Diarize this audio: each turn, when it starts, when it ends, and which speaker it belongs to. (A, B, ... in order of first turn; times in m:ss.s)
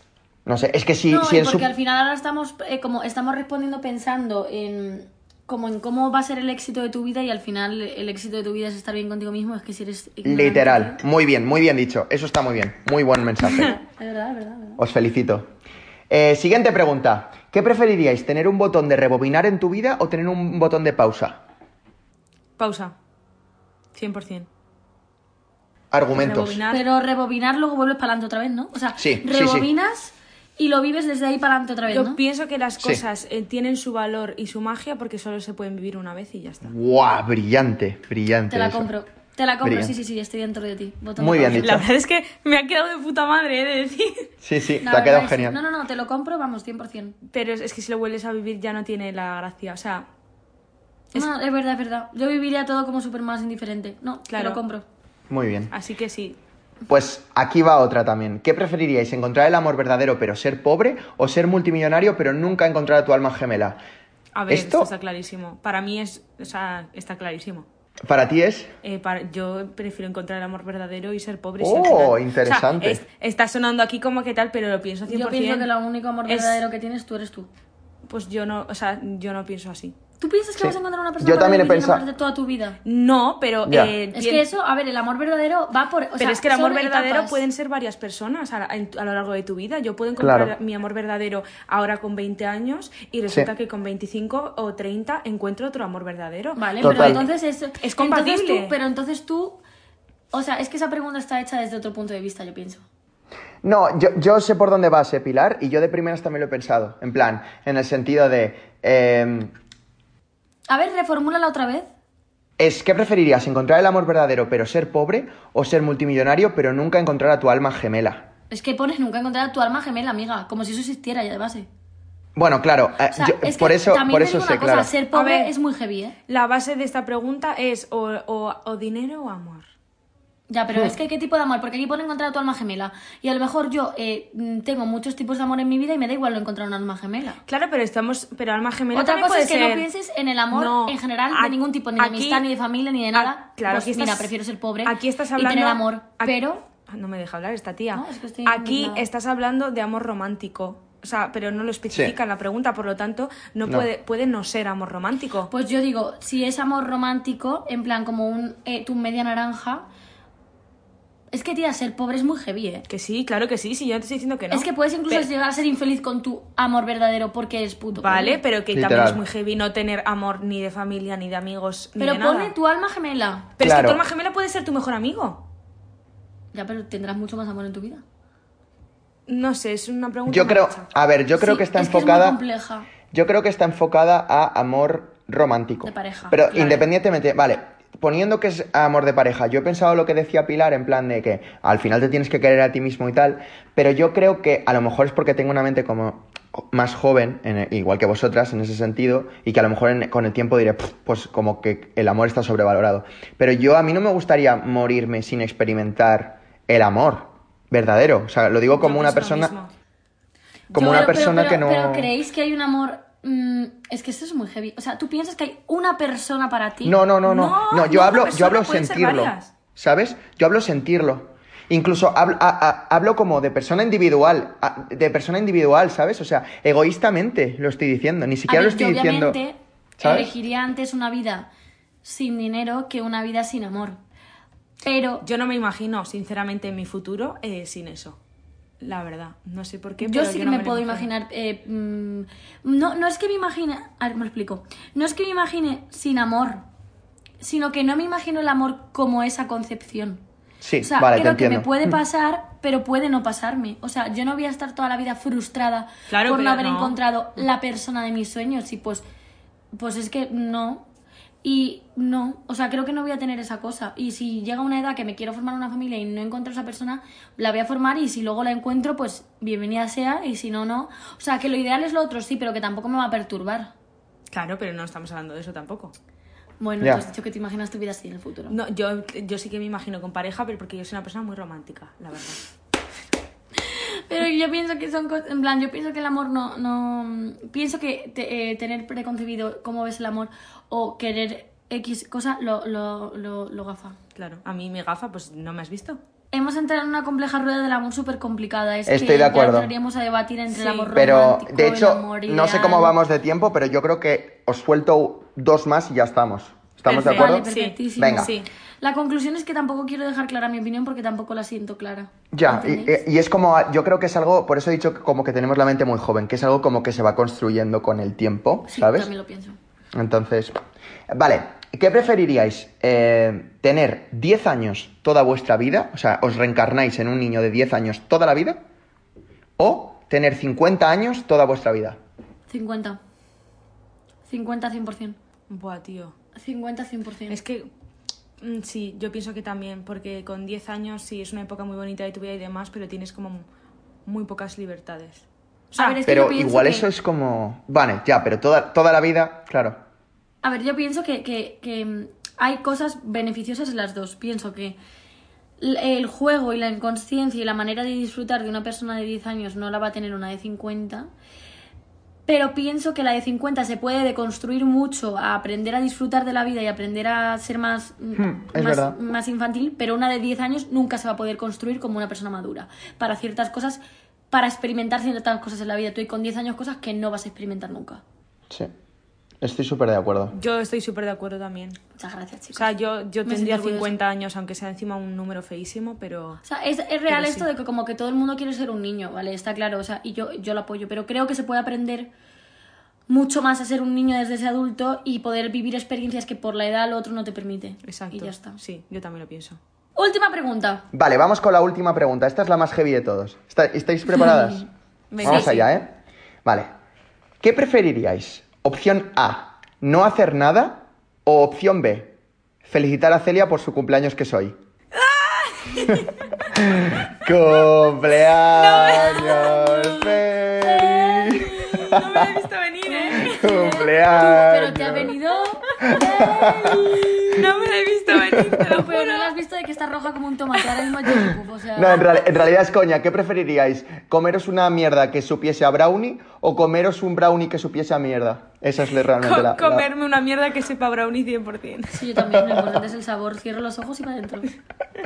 0:00.5-0:01.7 A
0:01.1-0:11.0 B
0:10.2-0:13.8 A
0:13.8-0:14.8 B
0:14.8-0:15.5 A
0:16.1-0:21.4 A
0:22.6-0:22.9 C
0:23.9-0:24.5 C
0:25.9-0:26.6 A
0:26.1-0:26.8 C
0:26.7-0:32.2 B
0:29.0-0:29.7 A
0:31.9-0:36.7 C
0:36.6-0:38.9 A
0:38.5-0:41.8 B
0:39.6-0:39.9 A
0:41.2-0:41.9 A
0:41.5-0:44.3 C
0:44.4-0:45.6 A
0:44.8-0:47.2 B
0:47.3-0:50.1 C
0:51.1-0:54.8 B
0:54.3-0:54.6 C
0:55.3-0:55.7 A
0:55.7-0:56.4 C
0:56.9-1:03.8 A
1:04.4-1:07.7 C
1:04.5-1:04.9 A
1:08.1-1:08.7 A
1:08.8-1:15.7 C
1:11.6-1:13.0 A
1:15.1-1:17.5 B
1:16.3-1:16.6 C
1:18.1-1:20.0 C
1:20.2-1:22.8 B
1:20.6-1:22.0 A
1:22.8-1:24.5 C
1:23.7-1:23.9 A
1:24.1-1:27.4 B
1:26.2-1:37.3 C
1:30.2-1:30.5 A
1:36.6-1:39.6 B
1:36.8-1:37.2 A
1:37.8-1:38.7 C
1:40.3-1:42.8 B
1:43.6-1:49.5 A
1:50.7-1:51.9 B
1:52.6-1:58.3 A
1:58.5-2:01.7 B
2:02.4-2:04.9 A
2:03.1-2:06.2 B
2:05.1-2:05.5 C
2:06.3-2:09.7 C
2:10.5-2:17.4 B
2:17.5-2:19.9 C
2:18.9-2:26.6 B
2:20.5-2:22.5 C
2:23.1-2:24.3 C
2:24.8-2:35.5 C
2:27.9-2:29.1 B
2:31.9-2:32.2 A
2:35.5-2:39.9 B
2:41.3-2:42.9 B
2:42.9-2:45.3 C
2:44.5-2:48.4 B
2:48.0-2:52.5 C
2:48.7-2:49.2 A
2:52.0-2:53.5 B
2:53.6-2:55.4 C
2:53.6-2:54.0 A
2:56.5-2:58.0 B
2:59.3-3:00.9 C
3:00.3-3:02.4 A
3:01.4-3:02.9 B
3:03.1-3:29.5 A
3:05.8-3:06.8 B
3:06.5-3:06.8 C
3:28.7-3:29.7 C
3:30.7-3:31.2 C
3:30.7-3:32.1 A
3:30.7-3:37.0 B
3:36.8-3:49.4 A
3:37.2-3:39.5 C
3:48.5-3:51.5 B
3:50.0-3:50.3 A
3:52.0-3:54.0 B
3:54.8-3:55.2 B
3:55.2-3:58.2 C
3:58.8-4:01.1 C
4:00.0-4:06.6 B
4:07.4-4:10.2 B
4:10.6-4:11.9 A
4:10.8-4:19.0 B
4:16.1-4:17.0 C
4:19.7-4:20.8 B
4:21.4-4:33.7 B
4:34.3-4:35.9 C
4:36.6-4:38.6 B
4:38.5-4:42.4 C
4:43.6-4:54.0 B
4:54.2-4:56.0 C
4:56.3-5:03.0 B
4:58.9-4:59.7 A
5:00.5-5:00.9 C
5:00.9-5:08.3 A
5:06.9-5:08.5 C
5:07.0-5:13.0 B
5:12.3-5:19.1 A
5:18.7-5:19.6 B
5:19.9-5:20.6 A
5:21.1-5:28.6 A
5:29.6-5:32.0 A
5:32.5-5:33.0 B
5:34.3-5:35.2 B
5:35.5-5:36.2 C
5:36.4-5:37.4 B
5:37.3-5:37.7 C
5:38.4-5:43.5 C
5:44.1-5:46.0 C
5:45.8-5:46.9 B
5:46.1-5:49.8 A
5:50.4-5:54.8 B
5:55.6-6:01.1 B
6:02.3-6:18.0 B
6:08.2-6:09.0 A
6:19.4-6:20.3 A
6:20.3-6:21.8 C
6:22.0-6:22.7 B
6:22.6-6:26.4 C
6:23.2-6:23.9 B
6:26.4-6:32.1 B
6:27.1-6:27.5 C
6:33.1-6:38.6 B
6:37.8-6:39.6 C
6:40.0-6:40.9 B
6:40.9-6:44.7 A
6:45.1-6:45.7 C
6:45.2-6:46.7 A
6:47.4-6:54.6 A
6:54.9-6:56.4 C
6:55.9-7:02.3 A
6:58.3-7:00.2 C
6:58.8-6:59.7 B
7:00.6-7:01.8 B
7:01.5-7:03.6 C
7:02.9-7:07.3 B
7:03.2-7:05.2 A
7:05.7-7:06.0 C
7:05.9-7:07.0 A
7:06.9-7:09.3 C
7:08.5-7:12.1 B
7:11.8-7:19.9 A
7:19.2-7:22.2 C
7:21.9-7:24.5 B
7:22.5-7:22.8 A